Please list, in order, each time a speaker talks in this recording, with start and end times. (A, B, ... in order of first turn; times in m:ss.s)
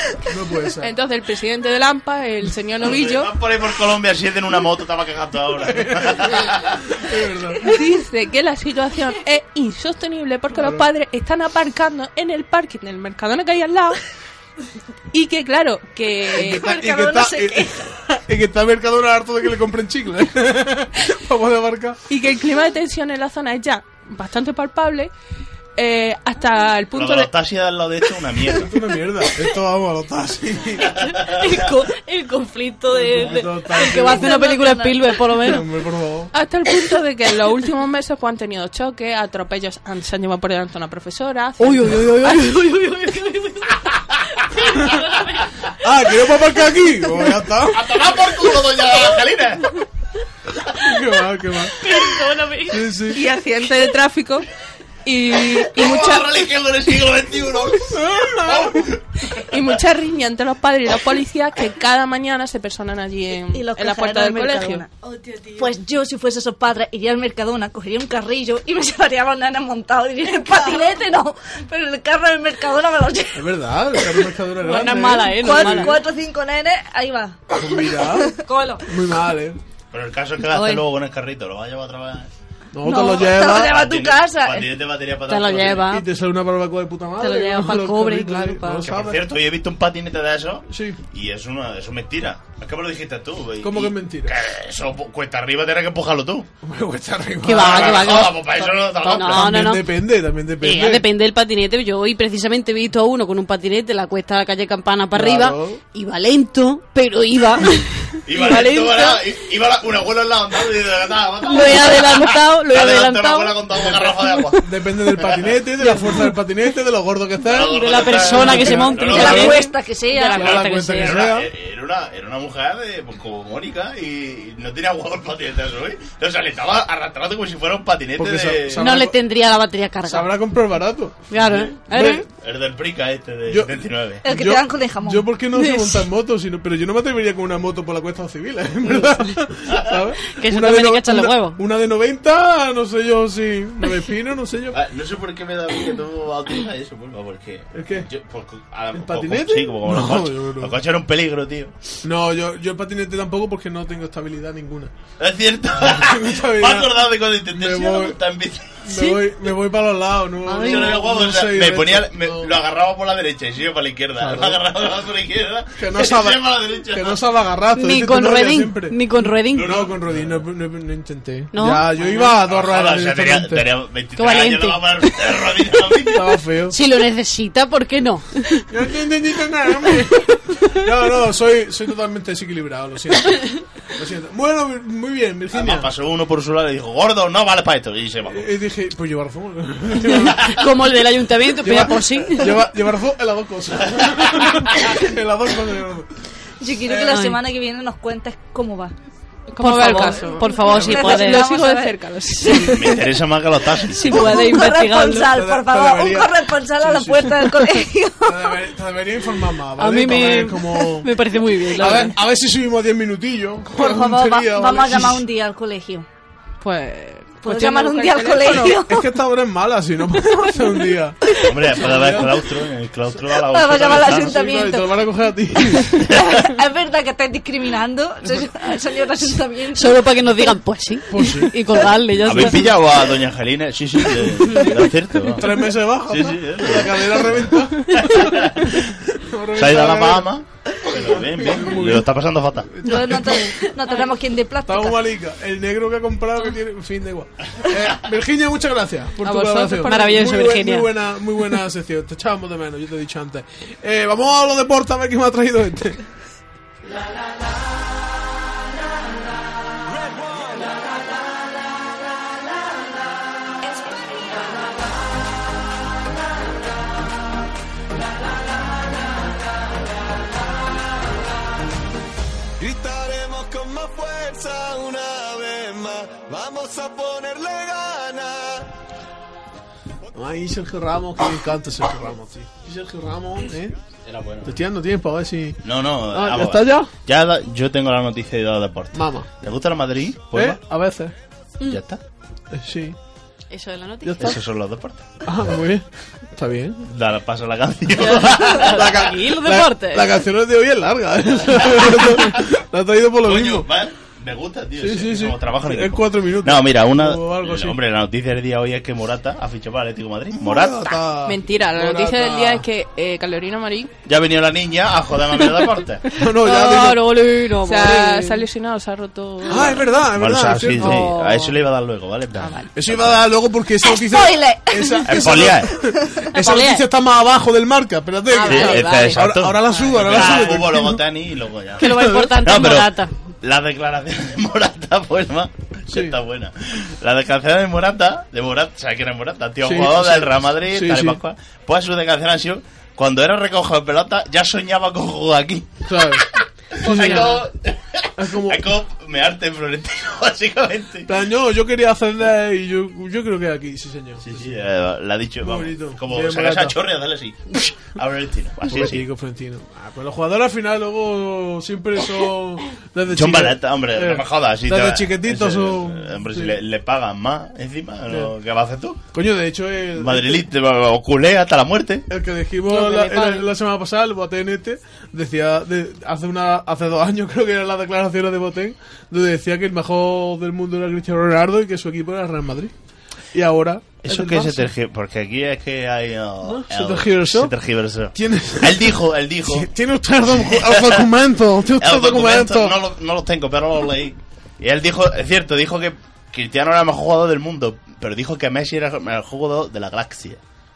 0:00.2-0:00.9 A
0:00.8-0:03.3 B
0:02.8-0:06.9 C
0:05.6-0:07.7 A
0:07.6-0:14.0 B
0:10.5-0:10.9 A
0:15.1-0:16.7 B
0:16.4-0:22.0 A
0:16.4-0:17.8 D
0:22.1-0:25.1 B
0:25.8-0:27.3 B
0:27.0-0:28.7 C
0:28.6-0:30.9 A
0:31.0-0:31.7 C
0:31.0-0:35.7 E
0:32.9-0:34.5 A
0:33.8-0:35.2 D
0:35.4-0:36.3 A
0:36.3-0:42.4 B
0:41.6-0:44.0 E
0:45.8-0:47.9 A
0:47.7-0:49.8 C
0:50.8-0:51.8 A
0:51.8-0:52.8 E
0:52.7-0:53.2 A
0:53.1-0:54.5 B
0:55.0-0:56.3 B
0:55.5-0:59.6 C
0:57.9-0:58.9 A
0:59.4-1:04.8 B
1:03.5-1:04.9 D
1:05.3-1:05.6 E
1:05.6-1:14.3 D
1:13.3-1:16.0 A
1:14.6-1:16.0 E
1:15.1-1:18.9 D
1:17.5-1:19.6 A
1:19.9-1:22.3 C
1:20.5-1:20.8 E
1:22.7-1:23.8 A
1:22.8-1:24.7 D
1:23.3-1:25.9 C
1:25.3-1:26.1 E
1:25.9-1:29.3 A
1:27.2-1:28.7 E
1:28.8-1:36.5 C
1:30.7-1:31.0 A
1:33.6-1:34.4 A
1:36.6-1:38.3 A
1:37.4-1:39.9 E
1:37.5-1:39.5 C
1:39.0-1:41.1 A
1:40.6-1:49.2 E
1:45.1-1:45.8 A
1:48.3-1:54.6 C
1:51.4-1:53.6 E
1:53.8-1:59.6 A
1:55.2-1:55.5 C
1:55.8-1:56.3 E
1:57.4-1:59.6 C
1:57.7-2:01.3 E
1:58.6-2:00.6 D
2:00.3-2:01.5 A
2:00.4-2:08.9 C
2:08.2-2:09.2 A
2:08.8-2:10.3 E
2:10.0-2:11.3 A
2:11.3-2:12.2 E
2:11.4-2:11.7 C
2:11.9-2:12.2 A
2:12.4-2:14.2 C
2:13.5-2:24.8 A
2:14.2-2:15.3 D
2:15.6-2:16.0 E
2:19.7-2:20.0 C
2:20.3-2:21.6 E
2:24.7-2:31.7 C
2:27.7-2:28.1 A
2:28.9-2:30.8 A
2:32.0-2:34.9 A
2:35.2-2:38.8 C
2:35.8-2:38.2 A
2:38.9-2:42.5 A
2:38.9-2:39.2 E
2:40.5-2:41.0 E
2:40.5-2:47.2 C
2:44.2-2:44.6 A
2:45.8-2:49.0 A
2:47.8-2:49.9 E
2:49.5-2:53.7 A
2:49.6-2:50.4 C
2:51.5-2:52.4 E
2:52.5-2:56.3 C
2:54.2-2:55.4 E
2:56.1-2:56.8 A
2:56.7-2:58.7 E
2:58.7-3:05.9 A
3:05.5-3:08.5 C
3:08.2-3:10.6 A
3:10.1-3:12.6 E
3:11.6-3:16.1 A
3:14.2-3:14.6 C
3:16.6-3:18.9 D
3:17.0-3:17.4 E
3:19.5-3:22.8 B
3:19.6-3:21.5 E
3:19.9-3:23.0 D
3:22.6-3:24.5 C
3:23.9-3:25.3 E
3:24.0-3:28.6 D
3:25.2-3:31.1 A
3:29.8-3:32.1 E
3:31.7-3:35.2 A
3:33.7-3:36.1 D
3:36.9-3:38.8 B
3:37.4-3:39.1 D
3:38.6-3:42.4 A
3:41.4-3:44.4 C
3:43.4-3:45.0 D
3:43.8-3:46.0 A
3:45.9-3:50.0 D
3:49.7-3:52.7 E
3:51.1-3:51.6 A
3:52.2-3:59.0 C
3:54.5-3:54.8 E
3:55.3-4:00.3 A
3:59.6-4:02.7 C
4:00.9-4:02.1 A
4:02.6-4:03.6 A
4:02.8-4:05.0 D
4:04.6-4:16.0 A
4:09.2-4:10.3 B
4:09.8-4:10.9 E
4:32.6-4:38.7 F
4:40.1-4:43.8 A
4:44.1-4:44.6 C
4:44.4-4:46.9 A
4:45.6-4:50.6 C
4:48.9-4:49.3 A
4:50.3-4:51.1 A
4:51.7-4:52.0 C
4:52.5-4:53.0 A
4:53.5-4:54.3 E
4:54.0-4:54.4 A
4:54.2-4:55.1 C
4:55.2-4:56.9 A
4:56.9-4:59.0 C
4:58.0-5:00.1 E
4:58.6-5:03.7 A
5:03.2-5:11.0 C
5:04.8-5:07.8 A
5:10.3-5:12.6 A
5:11.3-5:13.9 B
5:14.1-5:16.1 C
5:16.1-5:18.5 E
5:16.2-5:17.2 A
5:17.6-5:19.8 B
5:19.5-5:21.1 A
5:19.6-5:23.3 C
5:20.8-5:21.6 E
5:22.8-5:31.0 A
5:23.8-5:26.3 D
5:25.0-5:25.7 C
5:26.3-5:26.8 E
5:28.4-5:29.2 E
5:28.4-5:51.1 C
5:30.1-5:30.4 E
5:31.8-5:33.1 E
5:31.8-5:32.4 A
5:35.9-5:36.2 A
5:39.6-5:41.2 A
5:45.9-5:47.5 A
5:48.2-5:48.7 A
5:51.1-5:54.5 A
5:54.2-5:59.0 C
5:55.4-5:56.8 A
5:58.7-6:06.6 A
6:03.1-6:09.0 C
6:09.1-6:10.5 A
6:10.0-6:12.1 C
6:12.1-6:22.7 A
6:12.7-6:13.5 E
6:23.3-6:24.7 A
6:24.0-6:29.7 C
6:26.4-6:27.5 A
6:28.1-6:32.8 A
6:30.4-6:31.0 C
6:31.8-6:40.4 C